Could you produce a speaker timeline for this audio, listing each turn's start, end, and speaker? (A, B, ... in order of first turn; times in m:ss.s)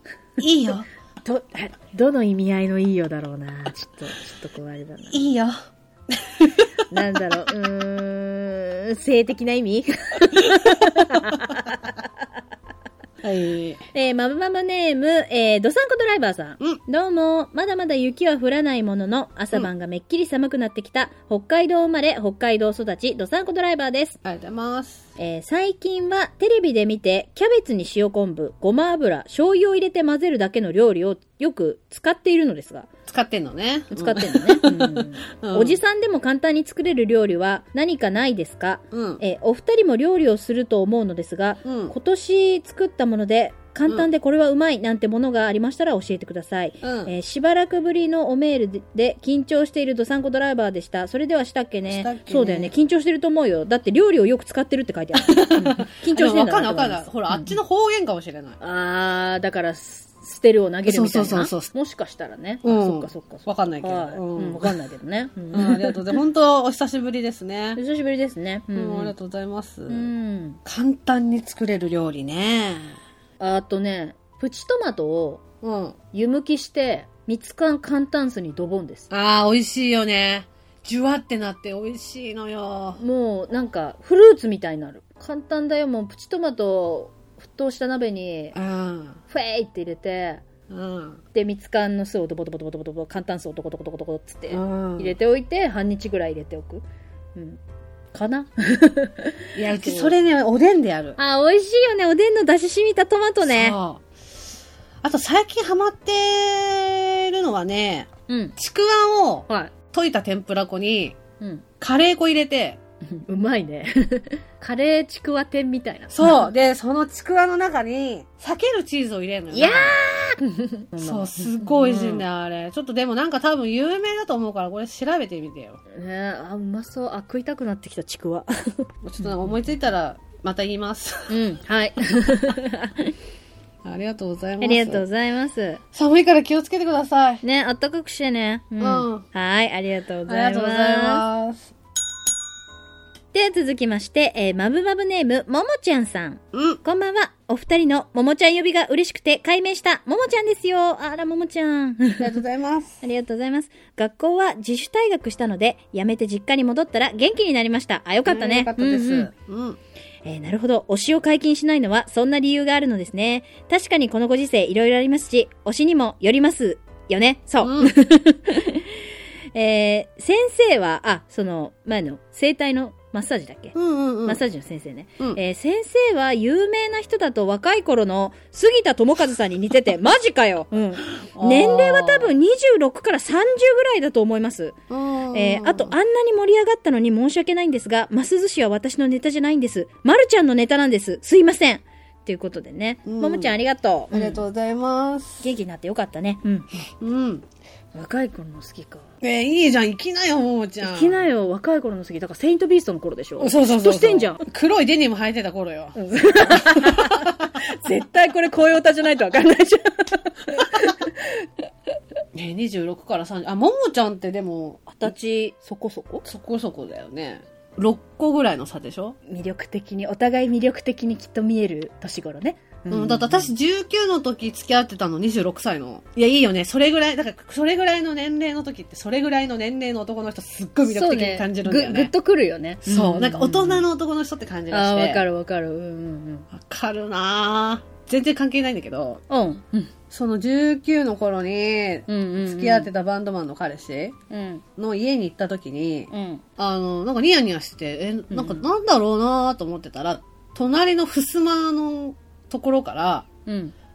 0:00.4-0:00.9 A
0:01.2-0:05.2 B
0:05.1-0:05.6 A
0:06.1-0:06.8 A
0:06.9-0:12.0 B
0:13.2-0:13.8 A
0:13.9-0:24.2 B
0:24.2-0:25.1 A
0:25.2-0:32.9 B
0:33.1-0:35.8 A
0:33.9-0:57.5 B
0:38.9-0:39.2 A
0:41.6-0:41.9 A
0:46.8-0:47.1 A
0:51.9-0:52.7 A
0:55.2-0:58.6 A
0:58.6-1:06.0 B
1:00.9-1:01.7 A
1:02.6-1:04.8 A
1:05.5-1:07.8 A
1:07.8-1:09.1 B
1:08.7-1:10.1 A
1:09.9-1:10.6 B
1:10.6-1:13.0 A
1:13.4-1:15.4 B
1:15.6-1:16.0 A
1:16.1-1:19.1 B
1:19.1-1:23.0 A
1:23.0-1:28.6 B
1:28.5-1:29.2 A
1:29.3-1:30.4 B
1:30.7-1:31.2 A
1:31.3-1:36.8 B
1:34.5-1:35.2 A
1:37.4-1:37.6 B
1:38.1-1:40.2 B
1:39.6-1:41.2 A
1:41.2-1:43.8 B
1:43.4-1:44.1 A
1:45.0-1:51.2 A
1:48.3-1:48.6 B
1:51.8-1:52.8 A
1:53.1-1:56.5 B
1:56.1-2:00.0 A
1:59.5-2:02.2 B
2:01.0-2:05.8 A
2:05.9-2:09.6 B
2:09.0-2:11.3 A
2:11.3-2:13.1 B
2:13.8-2:15.0 A
2:14.6-2:15.8 B
2:15.9-2:17.4 A
2:17.4-2:21.2 B
2:18.8-2:19.2 A
2:20.3-2:21.7 A
2:23.3-2:32.3 B
2:26.5-2:26.8 A
2:32.2-2:33.0 A
2:33.0-2:39.3 B
2:38.3-2:39.8 A
2:40.2-3:04.8 B
2:47.6-2:47.9 A
2:53.8-2:54.4 A
3:01.2-3:02.4 A
3:04.9-3:06.0 A
3:05.3-3:14.4 B
3:13.0-3:13.6 A
3:14.1-3:15.5 A
3:15.4-3:16.7 B
3:16.9-3:17.4 A
3:17.9-3:19.1 B
3:19.2-3:21.2 A
3:20.8-3:24.4 B
3:23.4-3:27.6 A
3:26.0-3:31.5 B
3:32.3-3:35.1 A
3:34.9-3:36.2 B
3:36.2-3:39.2 A
3:39.3-3:43.5 B
3:42.9-3:52.1 A
3:50.9-3:53.9 B
3:52.8-3:55.2 A
3:54.7-3:56.5 B
3:56.5-3:59.2 A
3:59.3-3:59.9 B
4:00.1-4:04.2 A
4:02.1-4:02.9 B
4:04.3-4:04.6 B
4:04.8-4:13.3 A
4:06.1-4:06.4 B
4:08.3-4:08.6 B
4:13.5-4:13.7 B